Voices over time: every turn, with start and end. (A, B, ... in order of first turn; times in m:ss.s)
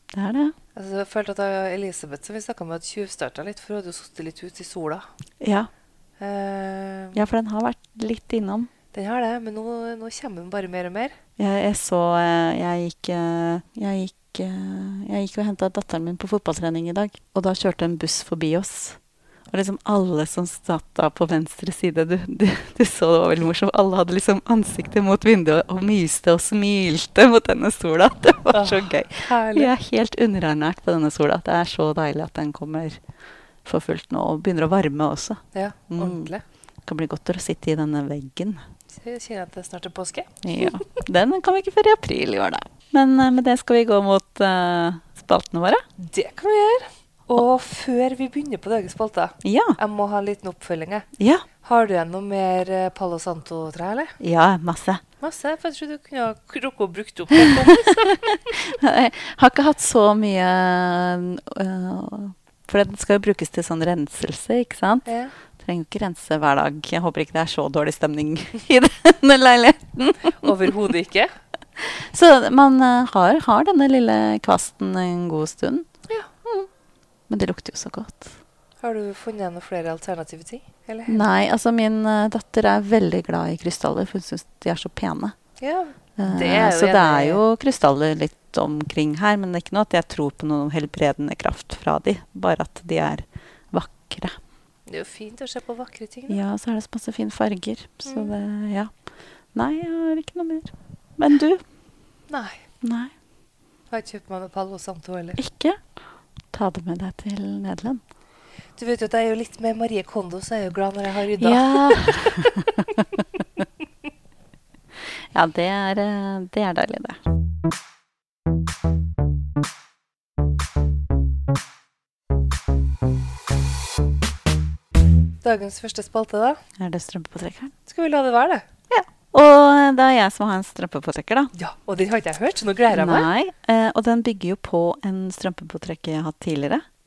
0:00.1-0:00.6 A
0:00.8-0:05.1 B
0:05.4-0:05.7 A
0:06.2-0:07.2 B
0:07.1-0:08.7 A
0:08.9-0:11.2 B
0:11.4-0:19.0 A
0:19.5-0:33.0 A
0:28.5-0:29.7 B
0:33.6-0:36.3 A
0:35.5-0:36.4 B
0:36.8-0:38.6 A
0:38.9-0:41.0 B
0:40.4-0:45.8 A
0:46.0-0:51.1 B
0:49.4-0:49.8 A
0:51.2-0:51.5 A
0:51.6-0:54.2 B
0:54.2-0:55.0 A
0:55.2-0:58.5 B
0:57.4-1:05.1 A
1:05.1-1:05.3 B
1:05.6-1:10.7 A
1:10.4-1:11.3 B
1:11.8-1:15.9 A
1:16.4-1:16.7 A
1:17.3-1:18.4 A
1:18.8-1:21.3 B
1:21.1-1:25.4 A
1:25.6-1:27.4 B
1:26.2-1:34.4 A
1:34.9-1:36.4 B
1:36.3-1:38.9 A
1:38.0-1:38.3 B
1:39.5-1:41.6 A
1:42.3-1:42.6 B
1:42.8-1:43.1 A
1:43.9-1:45.4 B
1:45.4-1:45.8 A
1:46.5-1:48.0 A
1:48.8-1:52.7 B
1:51.4-1:53.2 A
1:55.3-1:57.2 A
2:05.4-2:06.6 B
2:06.8-2:07.7 A
2:07.9-2:08.7 B
2:08.9-2:11.5 A
2:11.6-2:13.3 B
2:12.9-2:16.8 A